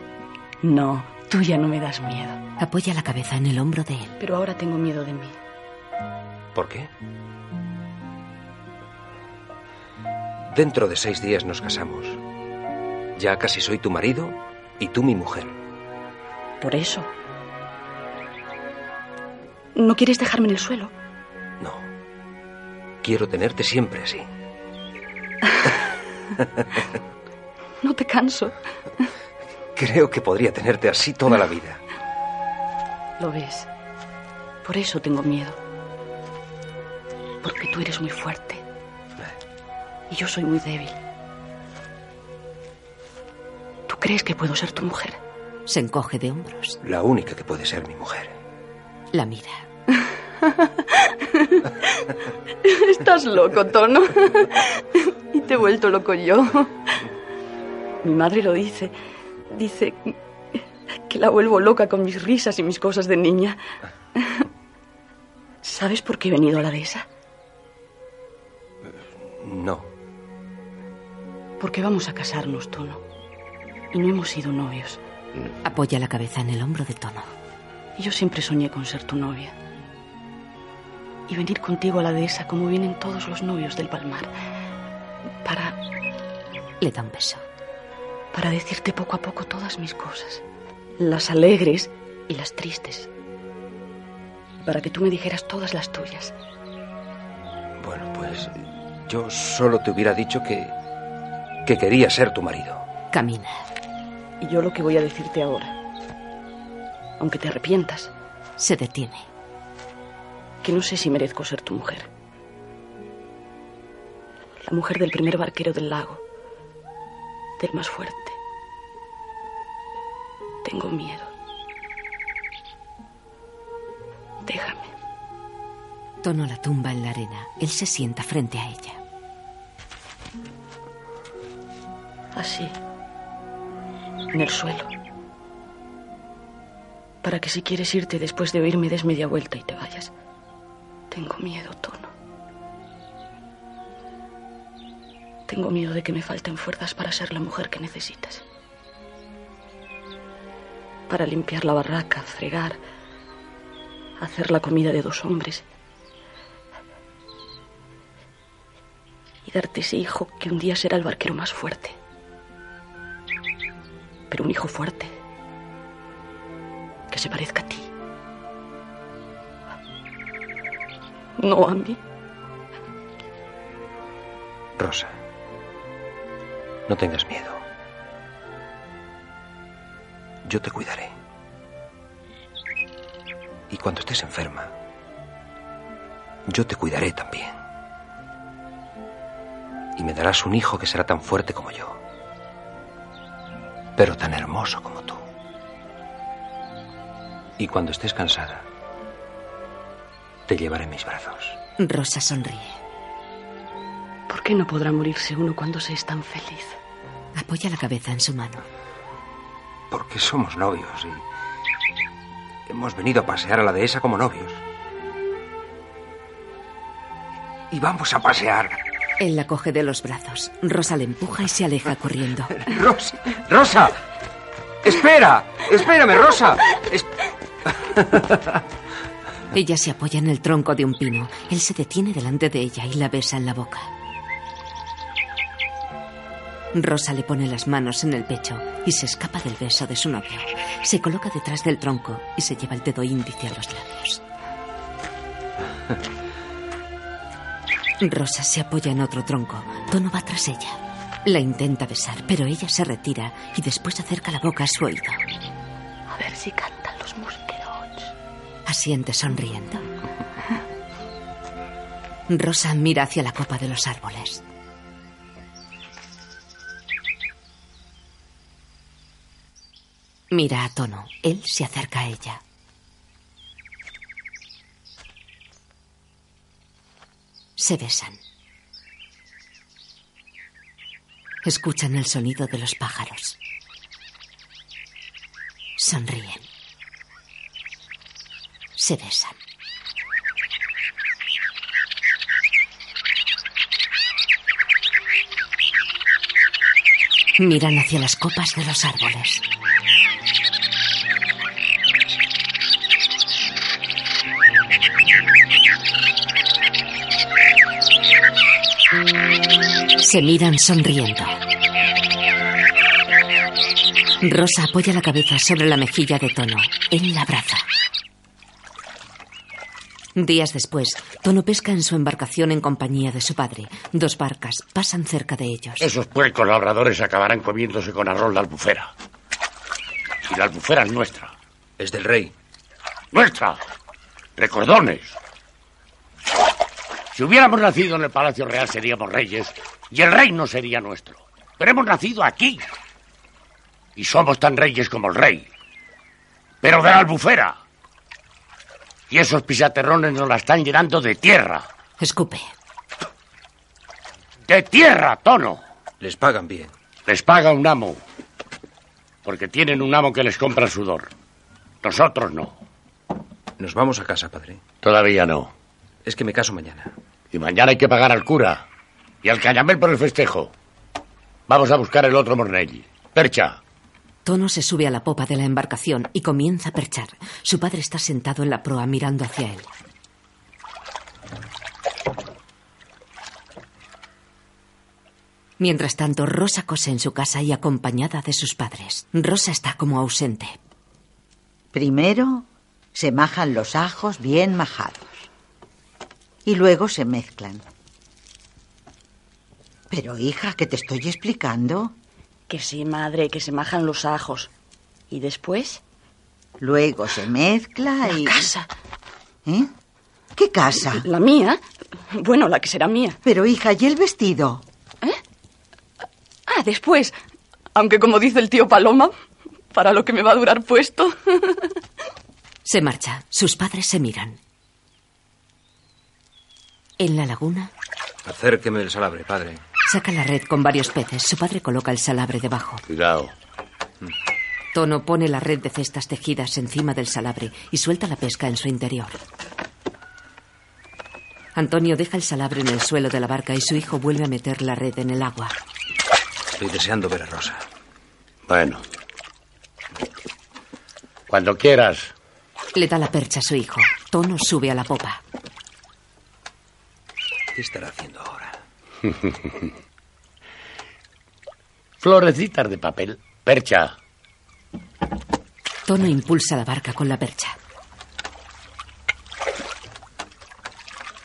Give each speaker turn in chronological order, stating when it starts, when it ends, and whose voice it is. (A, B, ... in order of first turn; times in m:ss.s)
0:00.6-0:02.4 A
0:02.6-0:04.2 B
0:04.2-0:05.4 A
0:06.6-0:06.9 C
0:10.5-0:12.2 C
0:13.2-0:15.6 C
0:16.6-0:17.1 A
0:19.8-0:20.9 A
0:21.6-0:21.9 C
0:23.0-0:24.3 C
0:27.8-0:28.5 A
0:29.8-0:31.8 C
0:33.2-0:33.7 A
0:34.6-0:35.6 A
0:37.4-0:38.6 A
0:40.1-0:41.0 A
0:43.9-0:45.2 A
0:45.7-0:46.8 B
0:46.8-0:48.4 C
0:49.1-0:49.6 B
0:50.4-0:51.8 A
0:52.6-0:56.9 A
0:58.0-0:58.9 A
0:59.5-1:00.2 A
1:01.0-1:03.6 A
1:04.2-1:04.4 A
1:05.6-1:07.1 A
1:08.9-1:09.9 C
1:11.6-1:13.0 A
1:13.9-1:15.0 A
1:15.6-1:17.3 B
1:18.0-1:19.6 A
1:21.3-1:24.3 A
1:25.4-1:25.8 A
1:26.8-1:27.4 B
1:28.3-1:30.4 A
1:31.0-1:33.1 A
1:34.6-1:36.3 A
1:37.8-1:40.8 C
1:41.6-1:42.8 C
1:43.1-1:43.6 B
1:44.4-1:45.7 A
1:47.2-1:48.1 A
1:48.6-1:49.3 B
1:50.6-1:52.1 A
1:54.6-1:56.2 A
1:57.6-1:58.4 A
2:00.6-2:01.3 A
2:04.4-2:04.9 A
2:06.2-2:09.0 B
2:12.4-2:12.8 A
2:14.3-2:14.9 A
2:17.2-2:20.1 A
2:21.1-2:22.1 A
2:25.5-2:28.4 A
2:31.1-2:32.8 A
2:34.2-2:35.6 A
2:39.4-2:42.0 A
2:44.3-2:45.1 A
2:47.1-2:47.9 A
2:51.4-2:52.0 A
2:54.8-2:55.1 C
2:56.9-2:57.6 C
3:00.4-3:01.1 C
3:03.7-3:04.7 C
3:06.5-3:07.5 C
3:10.0-3:12.0 C
3:14.0-3:15.2 C
3:17.6-3:18.7 C
3:20.5-3:21.6 C
3:21.8-3:22.8 B
3:24.3-3:26.8 A
3:27.4-3:28.6 B
3:29.9-3:31.2 C
3:32.7-3:34.6 C
3:37.7-3:38.8 C
3:39.2-3:42.5 B
3:42.6-3:43.9 C
3:44.8-3:47.1 C
3:47.8-3:48.5 C
3:49.5-3:53.9 B
3:56.7-4:04.2 B
4:08.0-4:15.2 B
4:16.1-4:18.2 A
4:18.7-4:19.8 B
4:22.3-4:24.4 B
4:30.3-4:32.4 B
4:37.6-4:38.2 B
4:41.4-4:43.4 B
4:45.8-4:46.5 B
4:48.8-4:49.4 B
4:57.4-4:59.4 B
5:10.0-5:11.4 B
5:14.2-5:17.7 B
5:20.2-5:25.9 B
5:25.8-5:28.9 D
5:30.3-5:31.3 D
5:31.8-5:32.3 C
5:33.1-5:33.6 D
5:34.4-5:35.2 D
5:37.1-5:42.6 D
5:44.0-5:45.5 D
5:46.6-5:47.6 D
5:49.1-5:51.7 D
5:52.0-5:52.5 B
5:54.5-5:55.6 D
5:56.0-5:56.7 C
5:57.1-5:58.0 D
5:59.2-6:01.1 D
6:01.8-6:02.6 D
6:03.6-6:04.6 C
6:04.8-6:05.5 D
6:06.0-6:06.9 C
6:07.3-6:08.6 D
6:09.2-6:10.5 D
6:11.5-6:13.6 D
6:14.2-6:19.7 B
6:25.6-6:30.6 B
6:31.7-6:35.3 E
6:36.5-6:37.6 E
6:39.9-6:41.9 E
6:42.5-6:44.5 A
6:45.1-6:45.8 A
6:46.6-6:48.5 E
6:48.1-6:48.7 A
6:50.4-6:51.0 E
6:51.0-6:51.6 A
6:52.1-6:53.2 A
6:53.2-6:54.6 E
6:56.5-6:57.2 A
6:57.8-6:59.1 A
6:59.7-7:01.6 A
7:02.6-7:04.4 B
7:07.0-7:07.7 B
7:08.2-7:09.6 C
7:09.9-7:12.8 B
7:12.9-7:13.3 D
7:14.7-7:19.2 B
7:21.6-7:25.6 B
7:26.6-7:27.6 C
7:28.5-7:28.8 D
7:31.3-7:32.1 D
7:32.8-7:35.2 B
7:37.5-7:38.6 C
7:39.2-7:39.5 D
7:42.0-7:44.0 D
7:45.9-7:47.6 B